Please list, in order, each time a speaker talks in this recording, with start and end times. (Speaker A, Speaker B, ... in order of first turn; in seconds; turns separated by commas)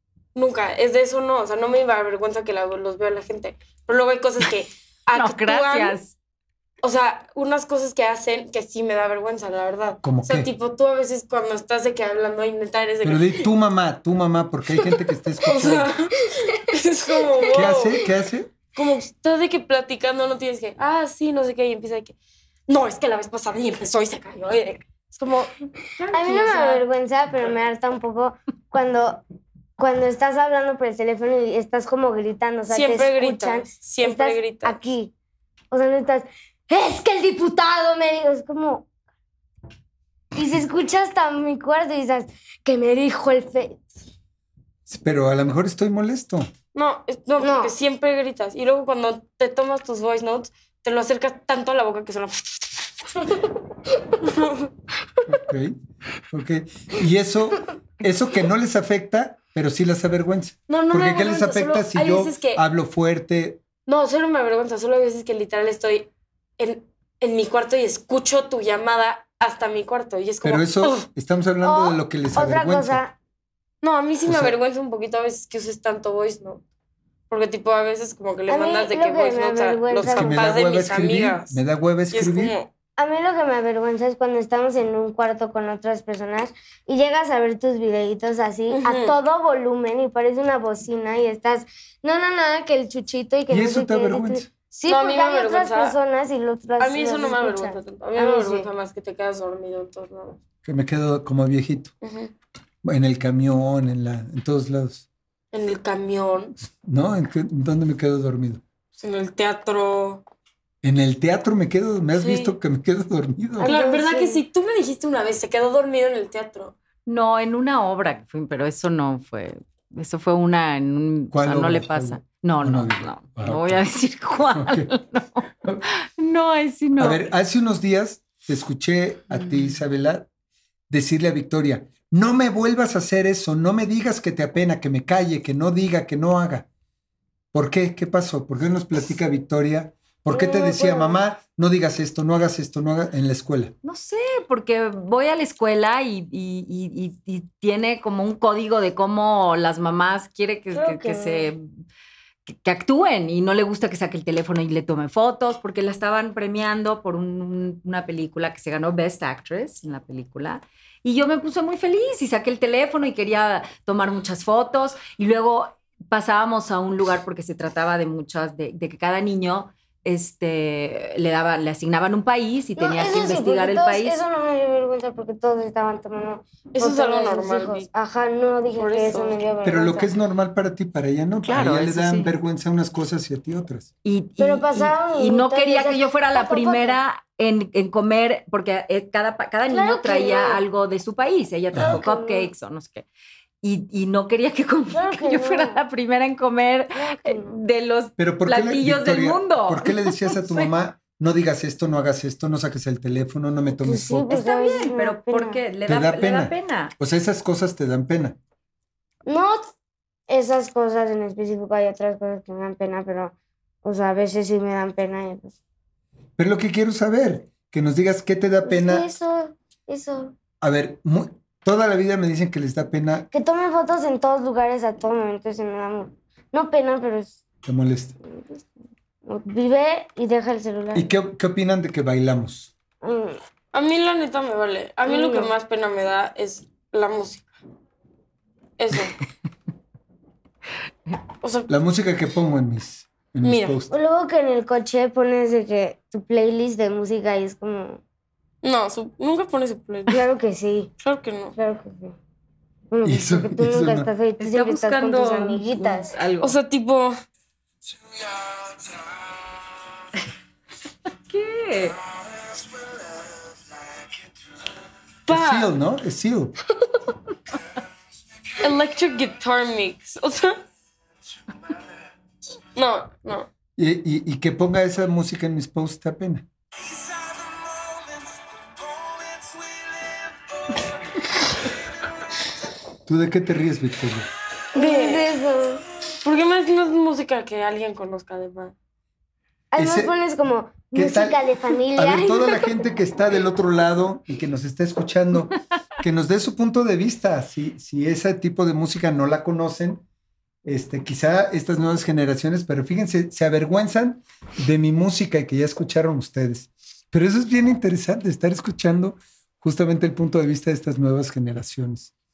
Speaker A: 0.3-6.0, Speaker B: 5.1-6.1, Speaker A: 6.8-13.5, Speaker C: 10.0-10.5, Speaker C: 13.0-15.9, Speaker A: 14.8-18.0, Speaker D: 17.2-17.5, Speaker C: 17.5-18.5, Speaker A: 18.7-22.1, Speaker A: 22.7-26.9, Speaker D: 26.1-29.2, Speaker D: 29.8-35.1, Speaker A: 32.7-34.8, Speaker D: 35.7-38.9, Speaker D: 40.3-43.9, Speaker C: 44.9-46.5, Speaker A: 46.7-53.5, Speaker D: 47.4-47.7, Speaker A: 54.2-54.7, Speaker C: 55.3-55.8, Speaker C: 56.3-63.6, Speaker A: 60.7-62.6, Speaker A: 63.9-71.0, Speaker C: 70.4-73.0, Speaker D: 71.6-73.1, Speaker A: 73.8-76.6, Speaker C: 74.2-74.5, Speaker A: 77.3-81.6, Speaker D: 78.5-80.6, Speaker C: 80.0-82.5, Speaker A: 82.1-82.7, Speaker D: 83.0-98.7, Speaker A: 88.7-89.2, Speaker C: 93.5-94.5, Speaker A: 94.8-96.0, Speaker A: 96.8-100.4, Speaker C: 100.6-101.9, Speaker A: 102.0-102.3, Speaker C: 102.8-105.1, Speaker A: 105.5-106.5, Speaker C: 106.8-108.6, Speaker A: 109.0-110.2, Speaker C: 110.8-113.7, Speaker A: 112.2-112.5, Speaker D: 113.6-114.4, Speaker A: 113.6-116.7, Speaker B: 117.1-127.2, Speaker C: 121.3-123.9, Speaker C: 124.5-124.9, Speaker C: 127.0-130.3, Speaker C: 130.9-136.7, Speaker C: 137.5-143.7, Speaker D: 140.3-141.2, Speaker B: 143.8-151.7, Speaker D: 150.7-151.5, Speaker B: 152.4-174.2, Speaker D: 172.8-180.1, Speaker A: 176.7-177.9, Speaker A: 178.7-179.4, Speaker C: 179.6-183.9, Speaker B: 181.5-182.3, Speaker B: 184.0-193.1, Speaker D: 184.4-187.0, Speaker D: 189.7-190.6, Speaker C: 191.7-192.0, Speaker D: 191.8-192.5, Speaker B: 193.6-200.7, Speaker D: 194.9-195.8, Speaker D: 196.9-197.6, Speaker C: 198.2-204.4, Speaker D: 203.8-205.6, Speaker B: 204.3-206.9, Speaker C: 205.9-208.4, Speaker D: 209.2-209.7, Speaker D: 210.3-215.6, Speaker C: 216.4-219.1, Speaker D: 218.6-220.3, Speaker C: 220.6-223.3, Speaker D: 223.3-227.4, Speaker C: 227.6-228.2, Speaker D: 228.3-228.6, Speaker D: 229.2-231.1, Speaker C: 230.9-232.7, Speaker D: 233.0-233.4, Speaker A: 233.7-237.5, Speaker D: 235.1-235.5, Speaker A: 238.8-239.2, Speaker A: 241.4-241.7, Speaker C: 241.7-243.9, Speaker A: 243.4-243.8, Speaker D: 243.9-248.0, Speaker A: 248.6-250.2, Speaker D: 250.1-250.9, Speaker A: 251.0-251.6, Speaker D: 251.6-252.2, Speaker D: 252.9-256.1, Speaker C: 253.0-254.1, Speaker B: 254.4-256.6, Speaker A: 256.4-257.1, Speaker B: 261.1-262.0, Speaker A: 265.3-265.7, Speaker C: 265.3-266.5, Speaker A: 268.6-270.6, Speaker A: 272.7-273.5, Speaker C: 273.8-276.4, Speaker C: 283.1-284.3, Speaker A: 284.7-285.3, Speaker D: 284.7-285.8, Speaker A: 286.2-288.7, Speaker D: 289.7-292.8, Speaker C: 289.8-290.1, Speaker C: 290.9-300.0, Speaker C: 300.6-312.1